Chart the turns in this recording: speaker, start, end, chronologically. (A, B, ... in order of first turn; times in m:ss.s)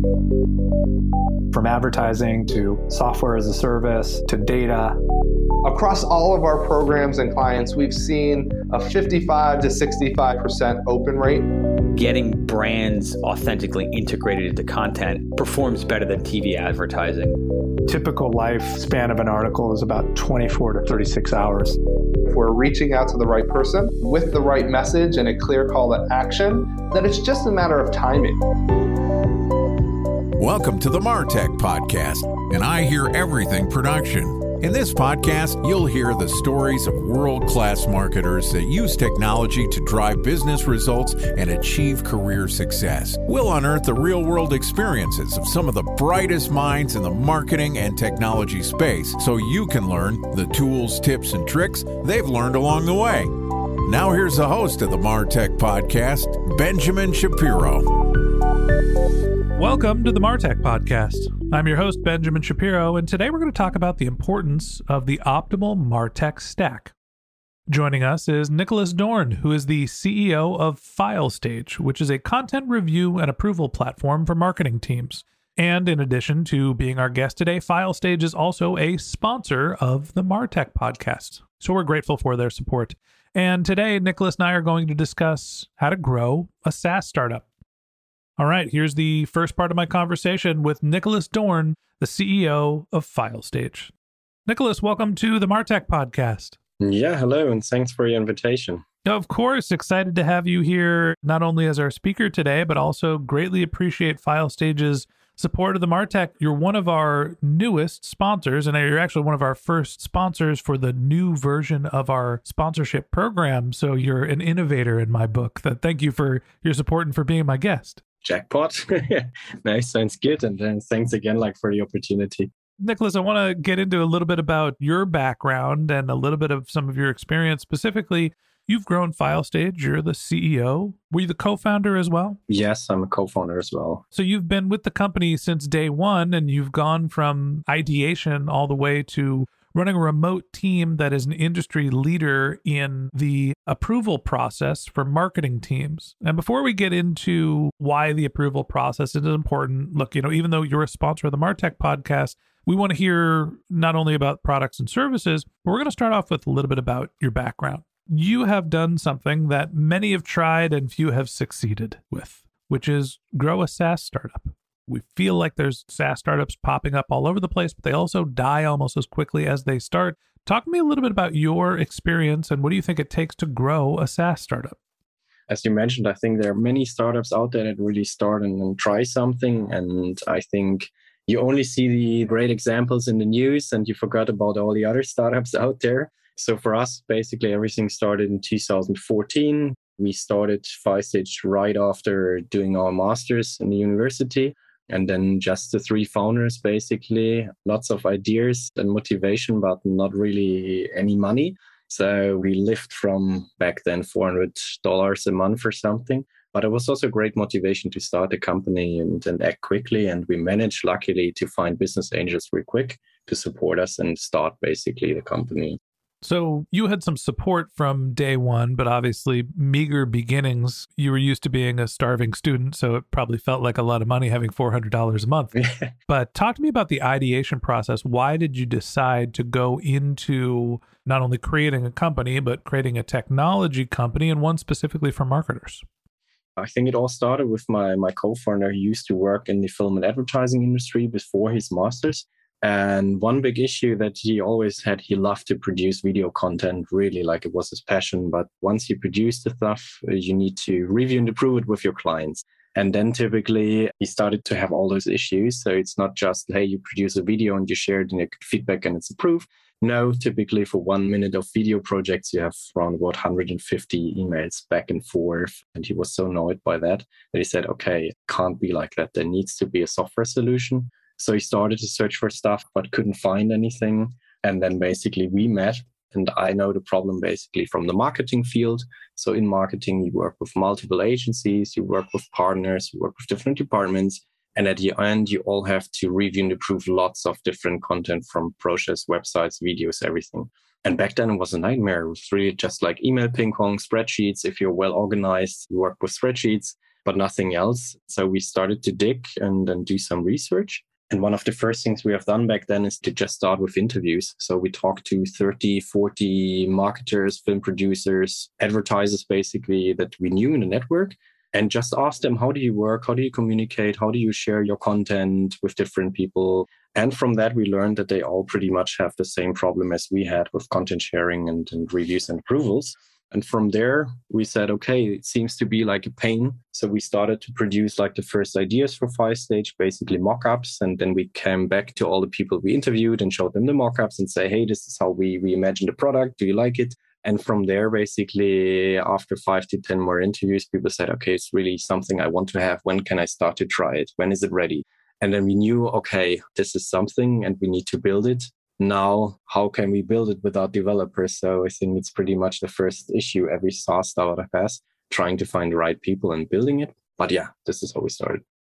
0:01.5-0:05.0 A
0:05.6-0:11.5 B
0:11.9-0:17.4 C
0:17.9-0:21.8 A
0:22.3-0:28.4 B
0:30.4-0:53.3 D
0:53.8-0:57.9 D
0:59.5-1:06.9 E
1:07.7-1:27.5 E
1:28.4-1:33.9 E
1:34.4-1:36.6 E
1:36.8-1:38.8 F
1:39.0-1:58.0 E
1:58.2-2:02.5 F
2:02.8-2:12.4 E
2:12.5-2:14.0 F
2:14.1-2:54.8 E
2:55.5-3:35.8 F
3:36.2-3:55.8 E
3:45.6-3:45.9 F
3:56.6-5:58.4 F